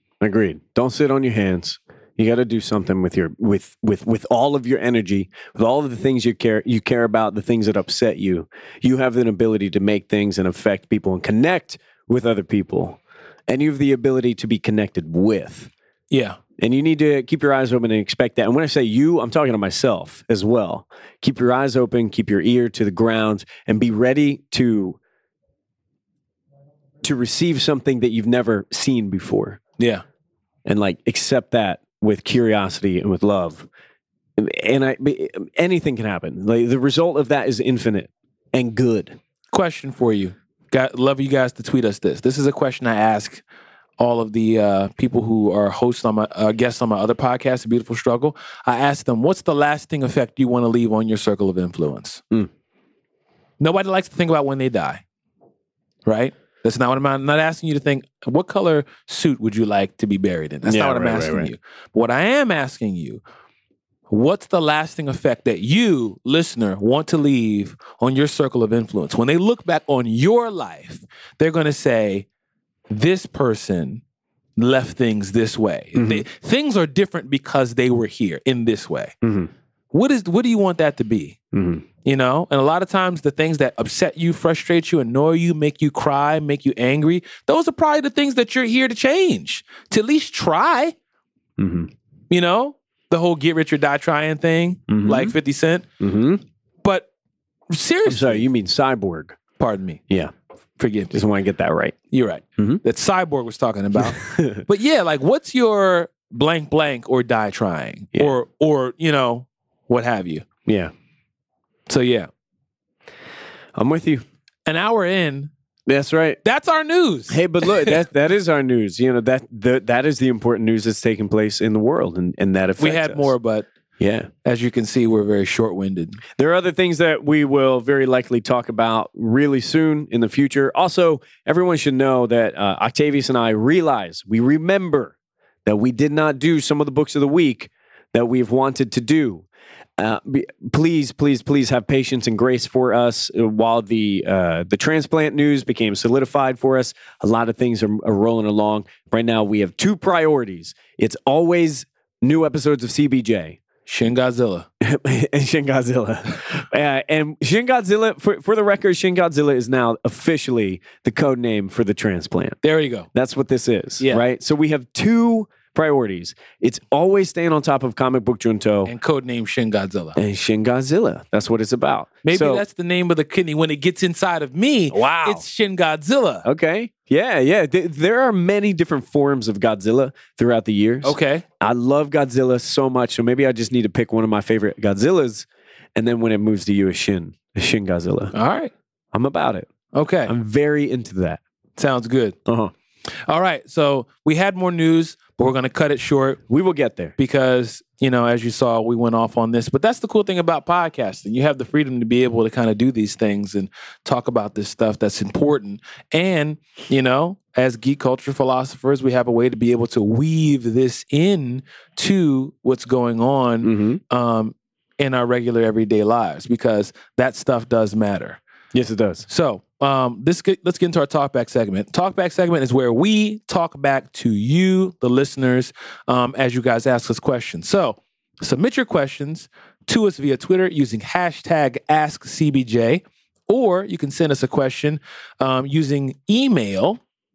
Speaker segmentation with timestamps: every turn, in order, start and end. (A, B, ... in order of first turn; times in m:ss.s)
0:00.2-0:15.7 A
0:16.1-0:16.4 B
0:16.6-0:25.0 A
0:27.0-0:29.6 A
0:30.6-0:33.7 A
0:34.4-0:39.2 A
0:39.5-0:43.4 B
0:44.0-0:52.2 B
0:53.6-0:55.0 B
0:56.0-1:03.2 B
1:00.6-1:01.5 A
1:04.1-1:12.2 B
1:12.9-1:14.0 B
1:14.6-1:19.1 B
1:15.9-1:16.2 A
1:19.2-1:19.5 A
1:19.9-1:21.4 B
1:21.5-1:21.8 A
1:22.0-1:30.9 B
1:31.6-1:31.9 A
1:32.3-1:35.8 B
1:34.9-1:35.3 A
1:36.0-1:36.4 A
1:36.8-1:37.1 B
1:37.7-1:38.4 B
1:38.0-1:39.4 A
1:39.6-1:40.0 B
1:40.8-1:41.2 B
1:41.1-1:42.0 A
1:42.1-1:50.4 B
1:44.0-1:44.6 A
1:50.6-1:50.9 A
1:51.9-1:52.3 B
1:53.7-1:54.2 A
1:54.7-1:55.5 B
1:55.9-1:56.4 A
1:56.4-1:58.0 B
1:57.3-2:03.3 A
2:02.8-2:03.7 B
2:04.0-2:04.3 A
2:04.4-2:06.2 B
2:06.4-2:15.1 A
2:15.6-2:19.4 A
2:20.0-2:33.6 A
2:33.9-2:34.7 B
2:34.8-2:42.6 A
2:42.6-2:43.1 B
2:43.1-2:48.9 A
2:48.8-2:50.2 B
2:50.2-2:52.6 A
2:52.2-2:56.4 B
2:54.9-2:55.4 A
2:56.4-3:08.3 A
3:01.0-3:01.4 B
3:08.3-3:08.7 B
3:09.1-3:09.7 A
3:09.9-3:10.3 B
3:10.3-3:11.4 A
3:11.8-3:12.4 B
3:12.4-3:12.7 A
3:13.3-3:16.4 B
3:16.5-3:17.1 A
3:17.2-3:38.4 B
3:33.6-3:34.0 A
3:38.7-3:39.3 A
3:39.3-3:57.0 B